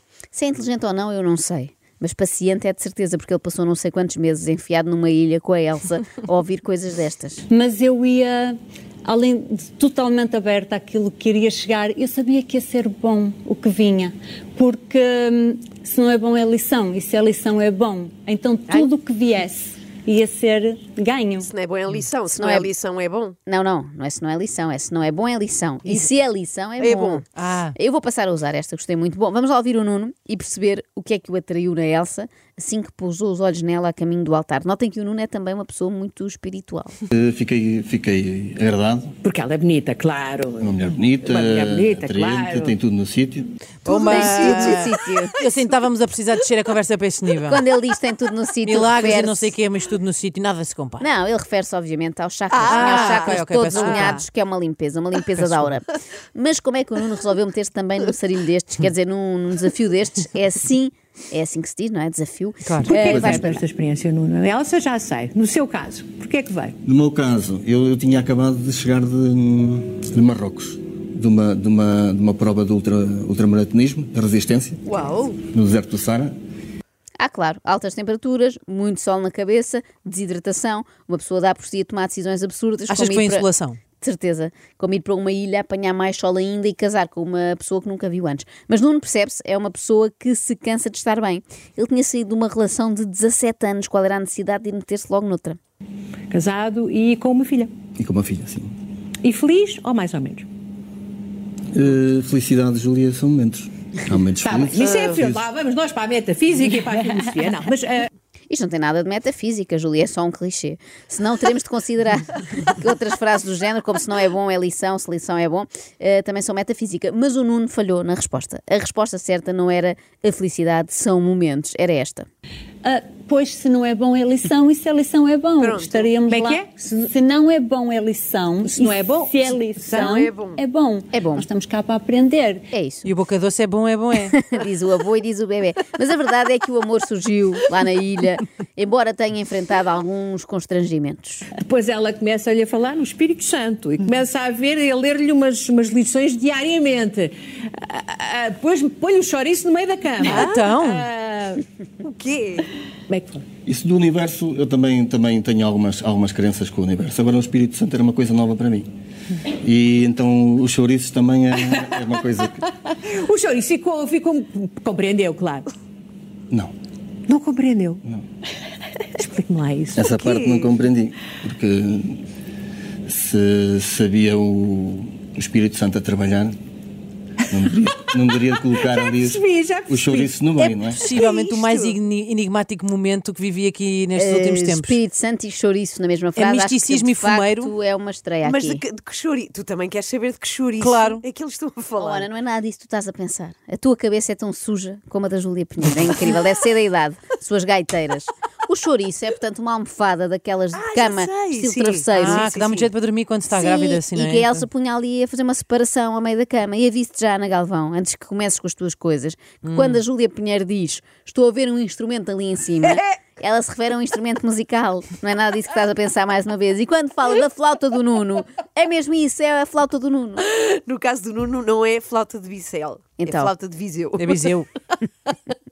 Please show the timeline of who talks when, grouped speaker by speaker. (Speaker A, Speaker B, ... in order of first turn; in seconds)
Speaker A: 0.3-7.4, 22.4-22.7, 23.5-27.2, 27.8-37.0, 43.9-45.4, 47.5-49.5, 51.0-63.6, 77.2-83.5, 84.0-95.6, 108.5-122.3, 131.1-131.5, 132.7-133.1, 134.2-141.5, 184.2-188.8, 192.0-202.6, 203.5-220.4, 223.2-223.5
Speaker B: 7.5-21.5, 122.8-132.7
Speaker C: 21.4-23.4, 26.8-27.2, 43.9-45.3, 52.5-54.2, 74.9-75.4, 104.8-105.2, 125.6-126.2, 129.9-130.6, 150.2-150.8, 152.0-152.7, 170.1-170.8, 181.2-182.0, 188.4-192.3, 200.7-202.9, 212.8-213.2, 220.4-224.5
Speaker D: 27.4-27.8, 43.9-47.6, 48.6-51.1, 52.7-54.2, 62.6-63.5, 82.9-83.8, 133.1-134.3, 150.2-151.1, 180.6-185.0, 186.4-187.7, 190.8-191.2, 202.1-204.7, 209.6-210.0, 224.2-224.7
Speaker E: 37.1-39.1, 40.6-43.5, 66.8-74.8, 75.5-76.3, 98.0-98.7, 101.7-105.5, 153.7-158.9, 159.5-162.7, 169.9-172.2, 173.1-176.6, 177.5-181.1
Speaker F: 39.2-42.7, 44.0-44.3, 62.8-66.8, 96.3-97.7, 99.2-100.5, 104.4-108.1, 126.3-127.1, 128.6-130.2, 141.6-151.7, 153.1-153.4, 163.0-165.7, 167.3-168.0, 169.2-170.1, 178.7-180.4